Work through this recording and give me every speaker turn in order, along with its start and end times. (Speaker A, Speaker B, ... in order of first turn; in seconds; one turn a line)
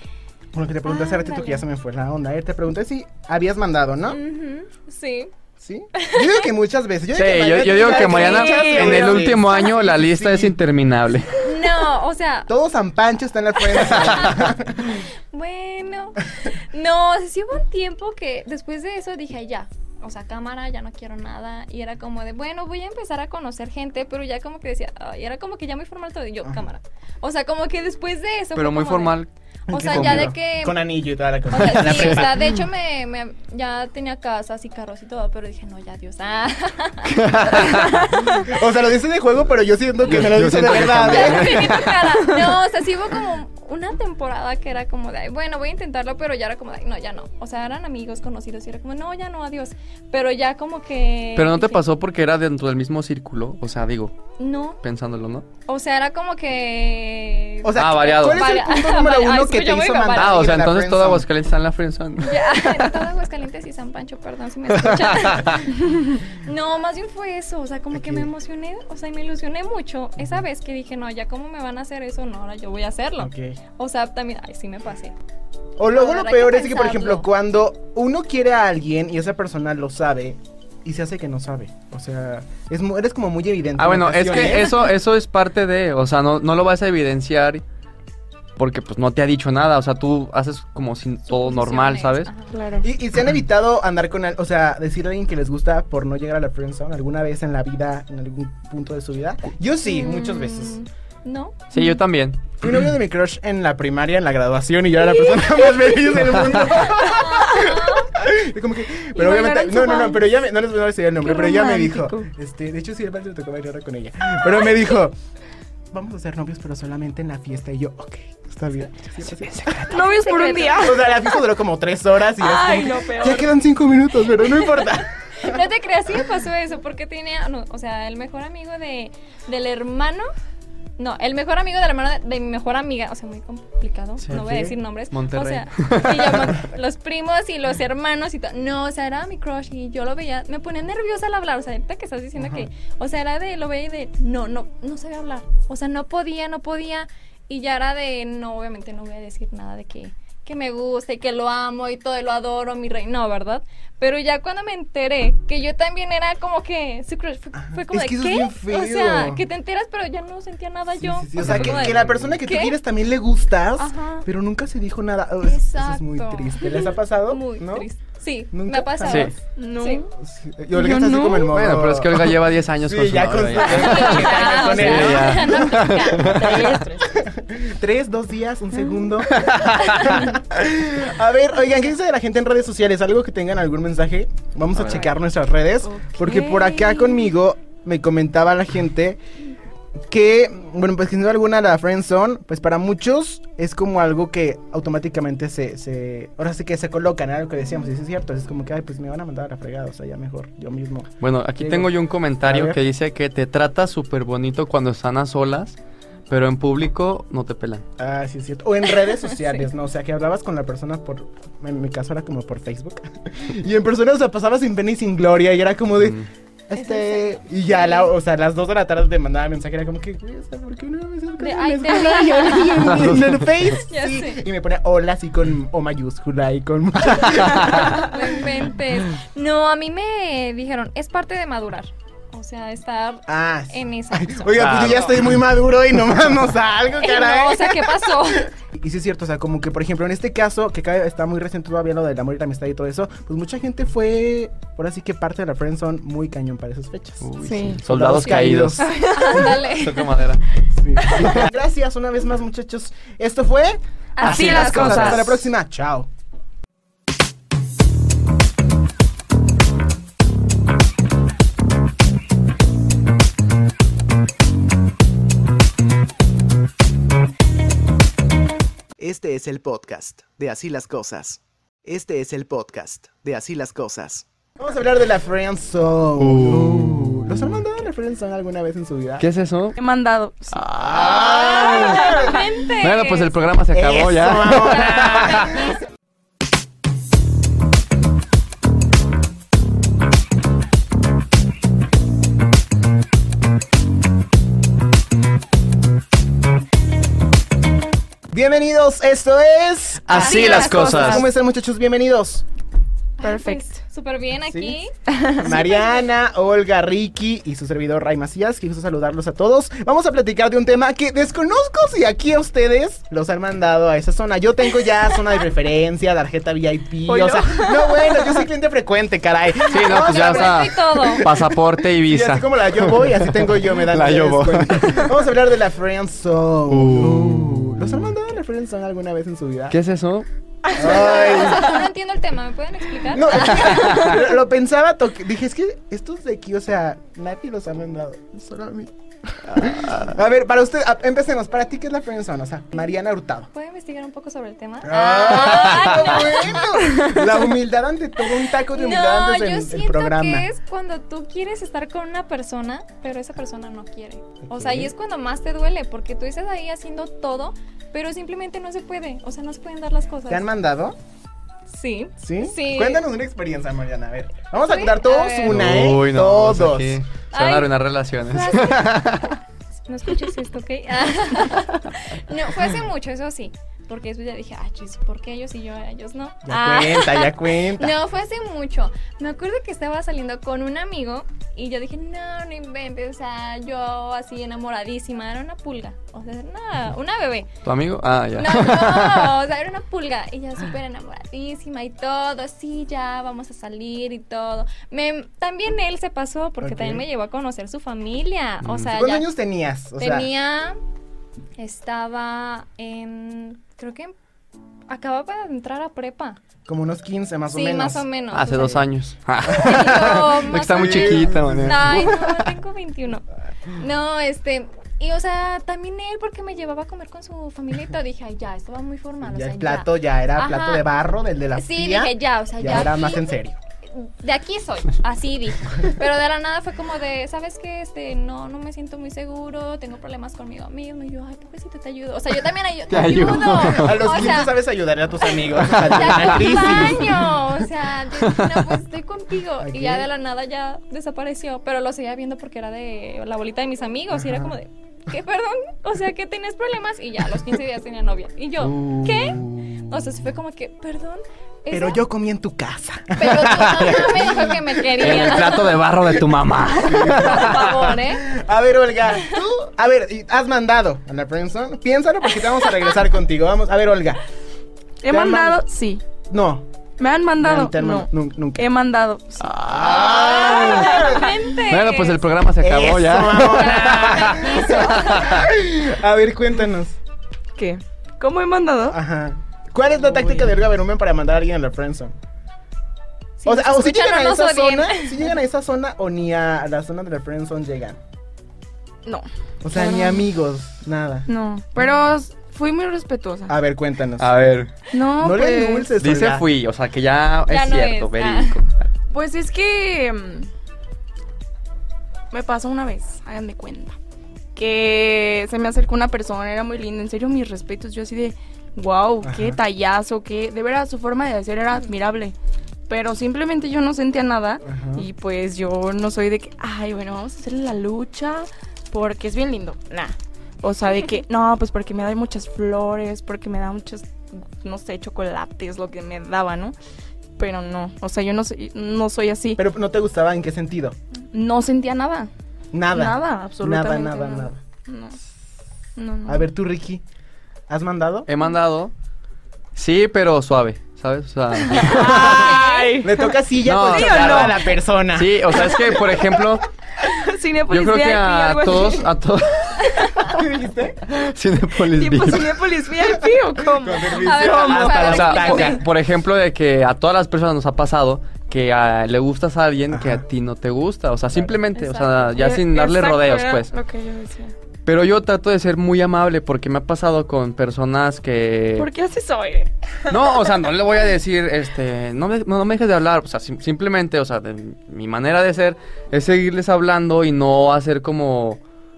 Speaker A: 0.5-4.2
Speaker B: 0.8-1.6
Speaker B: 4.1-5.3
Speaker A: 5.6-10.6
Speaker B: 5.9-6.5
Speaker C: 7.1-11.5
Speaker B: 7.8-9.0
Speaker D: 8.1-9.2
Speaker B: 11.4-12.5
Speaker A: 12.5-15.0
Speaker B: 13.7-14.6
Speaker B: 15.3-30.9
Speaker C: 28.5-30.3
Speaker A: 29.7-32.5
Speaker B: 31.5-38.4
Speaker C: 31.6-32.5
Speaker C: 37.0-38.1
Speaker A: 38.4-41.8
Speaker C: 40.0-42.4
Speaker B: 41.0-51.8
Speaker C: 51.4-54.2
Speaker B: 54.4-54.8
Speaker C: 54.8-55.5
Speaker B: 55.7-60.5
Speaker A: 57.6-61.3
Speaker C: 57.7-58.5
Speaker C: 60.1-63.0
Speaker B: 62.2-75.1
Speaker C: 64.8-65.6
Speaker A: 67.9-68.3
Speaker A: 73.2-73.6
Speaker A: 75.8-84.7
Speaker B: 75.9-77.3
Speaker C: 83.8-87.6
Speaker C: 88.6-92.3
Speaker B: 91.3-92.5
Speaker D: 92.5-92.9
Speaker A: 92.8-100.8
Speaker B: 99.8-101.7
Speaker C: 101.7-102.5
Speaker A: 102.6-115.1
Speaker B: 106.8-108.1
Speaker D: 109.1-110.3
Speaker D: 111.2-112.3
Speaker A: 115.9-120.0
Speaker D: 119.7-121.3
Speaker B: 119.9-121.0
Speaker A: 120.8-125.6
Speaker D: 122.4-123.5
Speaker B: 124.6-130.3
Speaker B: 131.0-162.8
Speaker A: 134.3-134.7
Speaker C: 135.1-136.6
Speaker A: 142.3-142.7
Speaker A: 157.6-159.4
Speaker A: 160.9-167.9
Speaker C: 161.4-162.3
Speaker B: 163.8-164.2
Speaker B: 165.4-170.0
Speaker A: 168.5-169.4
Speaker C: 169.1-169.3
Speaker D: 169.6-170.1
Speaker A: 170.2-176.5
Speaker D: 170.7-171.5
Speaker C: 171.5-176.7
Speaker B: 173.6-176.8
Speaker D: 176.1-177.2
Speaker A: 177.1-189.2
Speaker C: 179.3-180.1
Speaker B: 179.8-180.1
Speaker C: 184.8-185.1
Speaker D: 185.8-187.3
Speaker A: 190.1-202.8
Speaker C: 201.2-205.8
Speaker C: 206.3-207.8
Speaker A: 208.0-228.0
Speaker B: 216.7-218.1
Speaker B: 221.4-223.1
Speaker C: 222.9-223.5
Speaker B: 223.9-224.4
Speaker C: 227.2-227.9
Speaker B: 227.6-234.9
Speaker A: 233.3-248.9
Speaker C: 234.5-235.3
Speaker B: 236.9-238.5
Speaker C: 247.2-250.4
Speaker D: 247.4-247.8
Speaker D: 248.8-249.5
Speaker B: 249.0-250.1
Speaker A: 250.8-256.1
Speaker B: 254.2-255.3
Speaker D: 254.2-255.2
Speaker C: 254.2-255.3
Speaker E: 269.0-274.2
Speaker A: 274.6-279.2
Speaker C: 276.2-277.5
Speaker C: 279.2-279.8
Speaker D: 279.8-280.6
Speaker C: 280.5-285.6
Speaker A: 280.8-282.3
Speaker B: 281.0-283.4
Speaker A: 283.7-285.6
Speaker B: 284.6-285.8
Speaker A: 298.3-302.4
Speaker B: 300.1-301.3
Speaker C: 300.1-301.1
Speaker D: 300.7-301.2
Speaker B: 303.2-306.1
Speaker D: 303.2-303.8
Speaker A: 304.5-304.8
Speaker D: 305.1-305.4
Speaker A: 305.4-329.8
Speaker D: 317.1-318.4
Speaker C: 319.7-325.1
Speaker B: 319.9-321.3
Speaker C: 326.7-328.1
Speaker C: 329.7-330.2
Speaker B: 330.7-334.1
Speaker A: 330.7-331.8
Speaker A: 333.1-343.5
Speaker C: 339.5-340.1
Speaker B: 343.5-346.8
Speaker A: 344.8-350.5
Speaker B: 348.7-360.4
Speaker A: 354.5-354.9
Speaker A: 360.3-361.0
Speaker B: 361.7-363.0
Speaker A: 362.2-367.0
Speaker B: 364.6-365.7
Speaker C: 365.5-369.4
Speaker B: 367.3-367.7
Speaker B: 368.3-369.3
Speaker B: 369.9-387.5
Speaker A: 376.4-377.9
Speaker C: 387.6-389.4
Speaker B: 388.3-399.3
Speaker A: 396.6-397.1
Speaker A: 398.9-400.3
Speaker B: 400.0-400.8
Speaker B: 401.6-404.1
Speaker B: 404.9-406.4
Speaker A: 406.6-408.1
Speaker B: 407.5-408.8
Speaker C: 408.3-412.5
Speaker B: 409.4-420.9
Speaker A: 409.5-410.2
Speaker A: 410.8-411.8
Speaker A: 419.2-423.6
Speaker B: 421.5-423.3
Speaker B: 423.9-434.6
Speaker C: 432.9-434.3
Speaker A: 433.7-437.5
Speaker B: 435.2-452.0
Speaker C: 435.6-437.2
Speaker C: 438.2-438.7
Speaker A: 439.6-440.1
Speaker A: 444.1-444.5
Speaker C: 448.6-449.8
Speaker A: 451.7-456.2
Speaker B: 453.1-455.8
Speaker C: 453.5-454.1
Speaker C: 455.0-457.9
Speaker A: 456.8-464.2
Speaker B: 456.9-458.3
Speaker D: 465.0-466.0
Speaker A: 465.1-465.6
Speaker A: 466.3-466.6
Speaker D: 467.0-469.6
Speaker A: 467.4-468.7
Speaker C: 469.4-470.8
Speaker A: 469.6-471.3
Speaker B: 469.8-472.2
Speaker C: 471.6-475.4
Speaker A: 472.6-477.0
Speaker B: 473.4-475.5
Speaker D: 477.6-479.0
Speaker A: 478.9-482.1
Speaker B: 483.4-485.3
Speaker A: 483.4-488.0
Speaker D: 489.0-490.3
Speaker A: 489.6-491.3
Speaker D: 491.3-493.6
Speaker A: 493.5-494.6
Speaker C: 494.2-494.7
Speaker D: 494.9-495.9
Speaker A: 495.2-496.5
Speaker C: 496.0-498.9
Speaker B: 497.5-498.6
Speaker D: 499.1-500.5
Speaker D: 502.3-503.9
Speaker D: 504.5-512.3
Speaker A: 509.2-509.6
Speaker D: 512.9-526.7
Speaker A: 514.6-515.1
Speaker D: 527.4-529.6
Speaker A: 529.6-531.0
Speaker D: 531.3-532.3
Speaker A: 532.7-534.6
Speaker D: 532.9-535.2
Speaker D: 536.0-536.5
Speaker A: 536.2-537.0
Speaker A: 537.7-538.3
Speaker C: 538.3-538.9
Speaker C: 539.7-542.6
Speaker D: 541.6-544.7
Speaker B: 542.2-543.0
Speaker A: 543.0-545.6
Speaker C: 543.6-546.6
Speaker D: 545.5-546.4
Speaker D: 547.0-549.1
Speaker C: 547.7-550.4
Speaker B: 549.9-550.3
Speaker A: 550.4-551.0
Speaker C: 551.1-552.5
Speaker D: 551.9-555.7
Speaker A: 553.8-555.8
Speaker B: 554.1-555.8
Speaker C: 555.0-563.7
Speaker A: 559.9-560.2
Speaker B: 561.7-562.4
Speaker D: 562.4-564.5
Speaker C: 564.9-568.9
Speaker D: 568.8-570.2
Speaker C: 570.1-578.6